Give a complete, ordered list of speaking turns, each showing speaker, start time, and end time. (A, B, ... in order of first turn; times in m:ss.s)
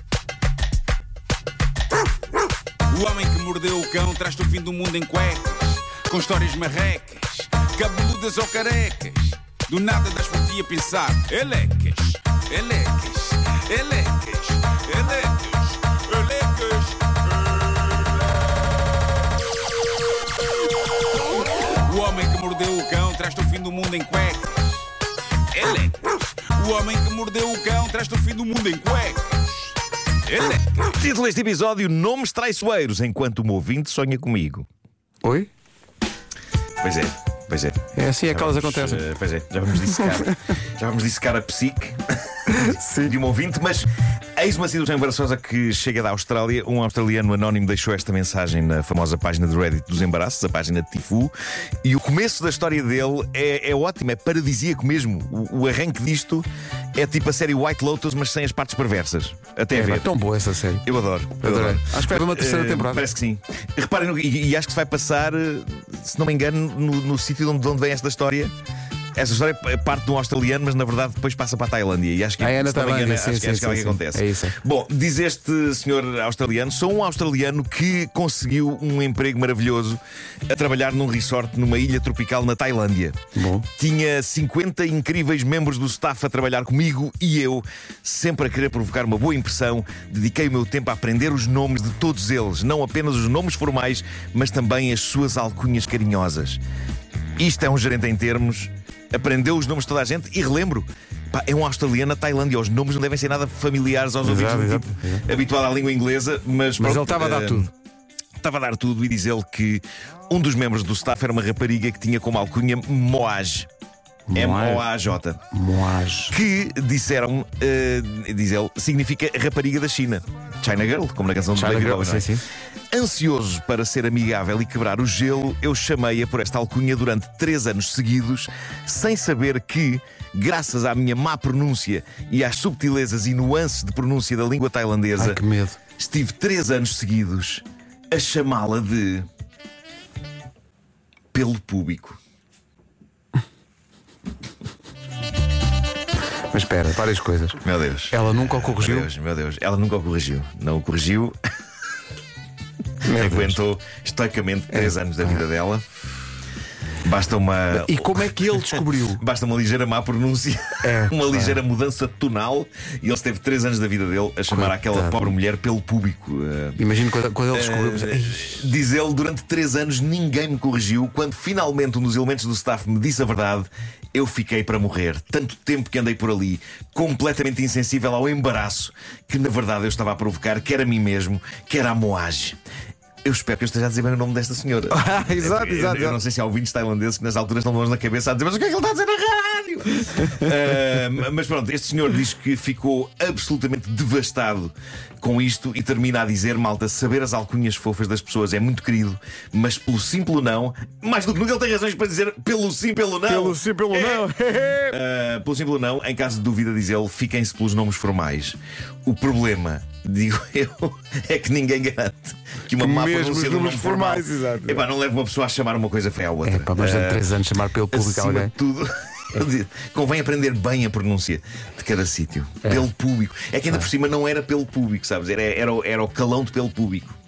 0:02.9-0:18.1 A
0:21.5-0:24.9 A
0:25.5-0:30.9 A
0:30.9-0:34.7 B
0:35.2-0:35.5 C
0:36.8-1:00.1 B
0:37.9-0:39.0 C
0:39.9-0:40.3 C
0:42.5-0:43.2 C
0:59.7-1:00.9 C
1:00.8-1:08.5 B
1:01.4-1:03.0 C
1:09.2-1:23.2 B
1:12.4-1:14.6 C
1:23.4-1:23.7 C
1:23.8-1:36.6 B
1:37.4-1:47.7 B
1:44.2-1:45.2 C
1:46.8-1:47.7 C
1:48.4-1:53.7 B
1:54.3-1:54.9 C
1:54.4-1:55.4 B
1:55.5-1:56.3 C
1:56.3-2:02.3 B
2:01.5-2:02.4 C
2:02.9-2:15.4 B
2:15.2-2:15.8 C
2:16.0-2:19.3 B
2:21.3-2:22.2 B
2:26.5-2:29.1 C
2:27.6-2:31.4 B
2:33.0-2:33.6 C
2:33.1-2:35.9 B
2:34.7-2:35.4 C
2:37.0-2:46.8 B
2:37.7-2:39.2 C
2:40.8-2:41.6 C
2:44.5-2:45.3 C
2:46.8-2:48.7 C
2:47.5-3:02.6 B
3:03.2-3:24.3 B
3:04.9-3:06.2 C
3:23.3-3:25.0 C
3:24.9-3:37.3 B
3:32.8-3:34.8 C
3:36.4-3:38.5 C
3:37.9-3:47.2 B